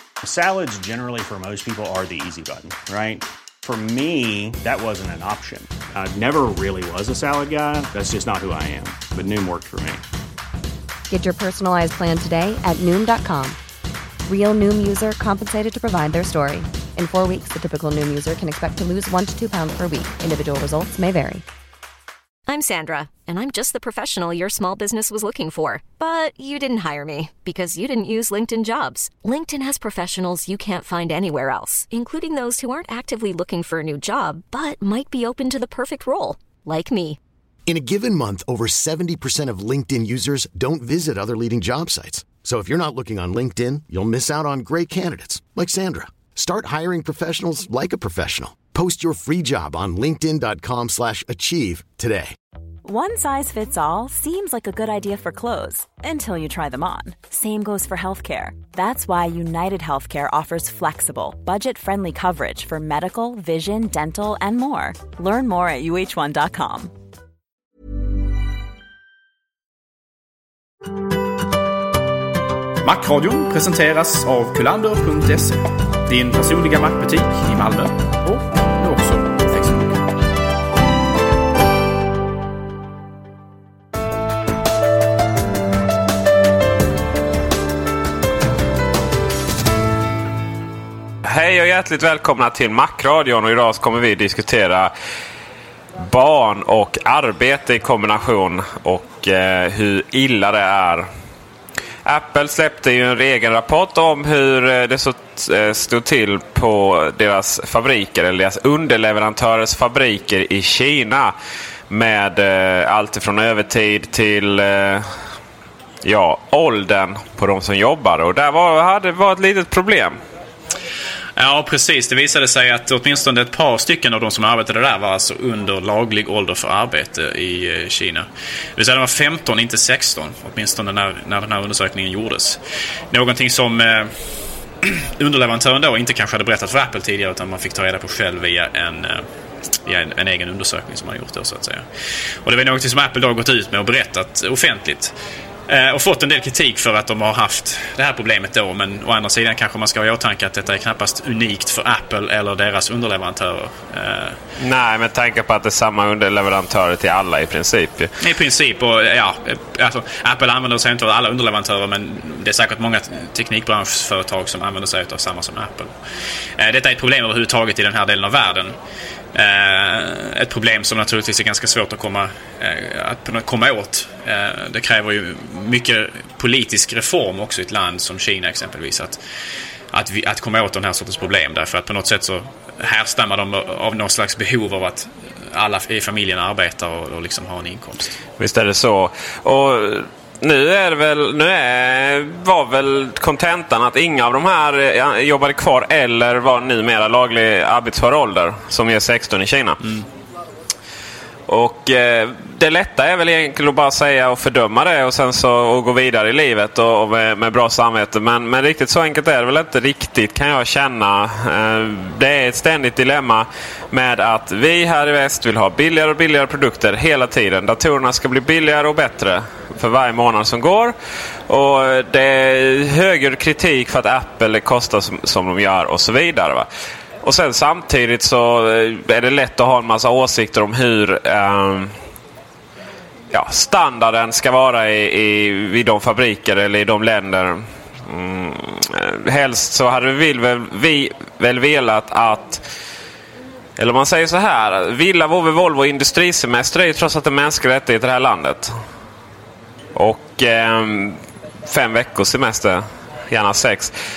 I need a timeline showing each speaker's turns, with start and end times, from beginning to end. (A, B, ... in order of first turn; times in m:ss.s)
0:00.2-0:10.0 A
0:11.1-0:13.6 B
0:14.3-0:21.4 B
0:22.5-0:37.2 C
0:37.7-0:52.4 D
0:52.8-1:06.9 E
1:12.8-1:20.2 F
1:31.2-1:34.9 G
1:36.0-1:41.1 G
1:42.0-1:51.3 G
1:51.9-1:55.1 G
1:56.0-2:00.2 G
2:01.4-2:12.6 F
2:13.1-2:14.2 F
2:14.8-2:19.2 F
2:19.8-2:21.8 F
2:22.4-2:25.2 F
2:25.7-2:34.4 F
2:34.6-2:38.1 G
2:38.2-2:45.9 F
2:46.6-2:48.8 F
2:49.3-2:59.2 F
2:59.9-3:08.2 F
3:08.4-3:19.9 G
3:21.5-3:41.0 G
3:41.5-3:46.7 G
3:47.2-3:52.0 G
3:53.3-4:02.7 G
4:03.8-4:08.8 G
4:09.9-4:13.9 G